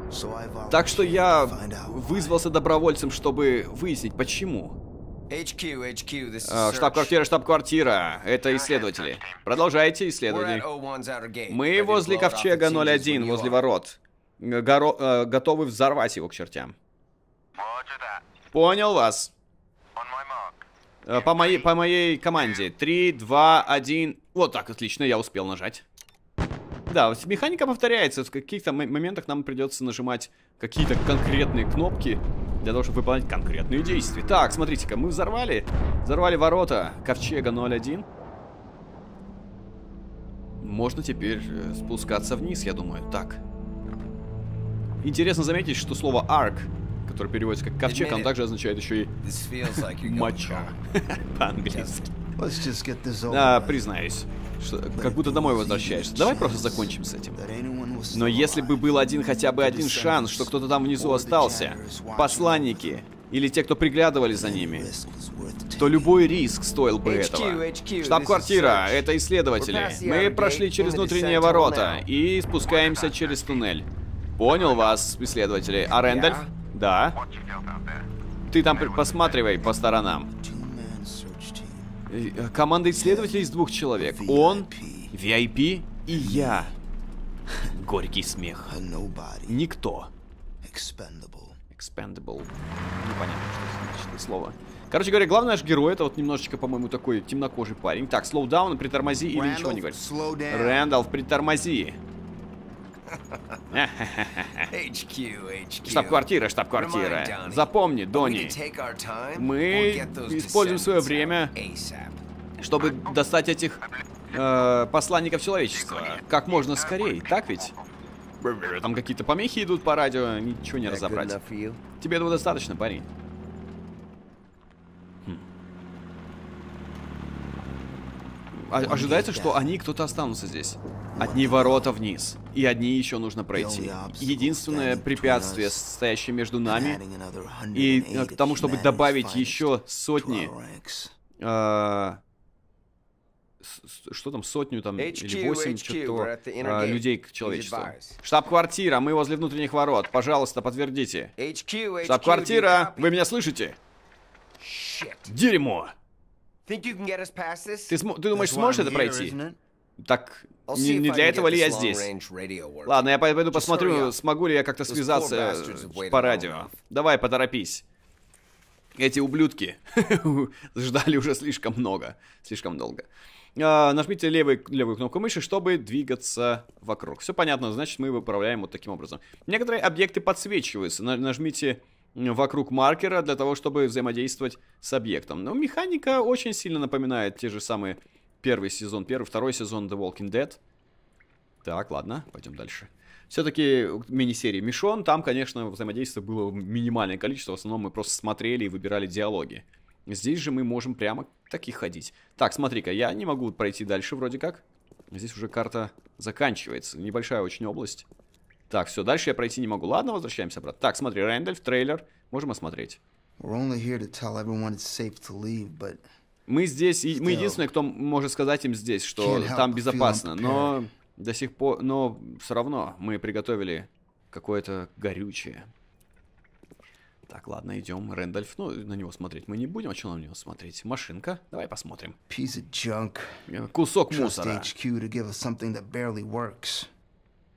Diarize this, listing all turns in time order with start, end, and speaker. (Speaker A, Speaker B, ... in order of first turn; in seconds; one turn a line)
Speaker A: 0.1-2.4
Speaker B: 0.7-4.8
Speaker C: 5.3-7.2
Speaker B: 6.4-10.7
Speaker C: 8.5-9.2
Speaker C: 10.3-13.6
Speaker B: 11.5-16.8
Speaker C: 17.6-18.2
Speaker B: 18.5-19.3
Speaker C: 19.9-20.6
Speaker B: 21.1-25.8
Speaker B: 26.9-38.1
Speaker B: 40.6-43.4
Speaker B: 45.0-52.1
Speaker C: 47.9-48.4
Speaker C: 49.2-50.8
Speaker C: 51.6-52.0
Speaker A: 52.4-53.9
Speaker B: 53.3-57.4
Speaker A: 54.9-63.0
Speaker B: 58.1-64.9
Speaker A: 64.3-66.3
Speaker B: 65.8-77.2
Speaker C: 67.0-69.1
Speaker C: 69.6-72.1
Speaker C: 72.7-73.6
Speaker C: 75.9-76.5
Speaker B: 78.5-80.3
Speaker A: 80.4-82.0
Speaker B: 82.1-86.7
Speaker A: 82.9-85.1
Speaker A: 86.1-86.7
Speaker B: 87.7-88.8
Speaker A: 88.7-89.6
Speaker B: 89.5-90.1
Speaker A: 90.6-91.6
Speaker B: 91.7-102.0
Speaker A: 99.3-100.9
Speaker C: 103.1-103.6
Speaker B: 103.7-104.7
Speaker C: 104.7-112.2
Speaker B: 105.8-108.6
Speaker B: 109.3-111.5
Speaker B: 112.6-117.7
Speaker C: 115.8-116.2
Speaker B: 118.4-121.4
Speaker C: 120.8-121.8
Speaker B: 122.0-123.1
Speaker B: 128.5-137.0
Speaker A: 128.8-129.8
Speaker A: 131.1-131.9
Speaker A: 133.5-135.8
Speaker A: 136.7-141.1
Speaker B: 137.7-140.5
Speaker B: 141.4-142.2
Speaker B: 143.6-151.3
Speaker C: 145.0-148.2
Speaker C: 151.4-153.2
Speaker B: 152.0-153.8
Speaker C: 154.6-155.3
Speaker B: 155.3-155.9
Speaker C: 156.7-158.0
Speaker B: 157.9-159.4
Speaker A: 158.3-159.6
Speaker B: 160.0-162.1
Speaker C: 160.7-164.2
Speaker B: 162.8-167.8
Speaker C: 164.9-166.7
Speaker B: 169.0-190.6
Speaker B: 191.6-208.1
Speaker B: 208.7-213.0
Speaker A: 213.4-216.0
Speaker B: 216.5-225.7
Speaker A: 217.1-217.7
Speaker A: 219.2-220.8
Speaker B: 227.3-232.2
Speaker A: 232.3-233.5
Speaker B: 233.5-234.7
Speaker A: 234.1-236.9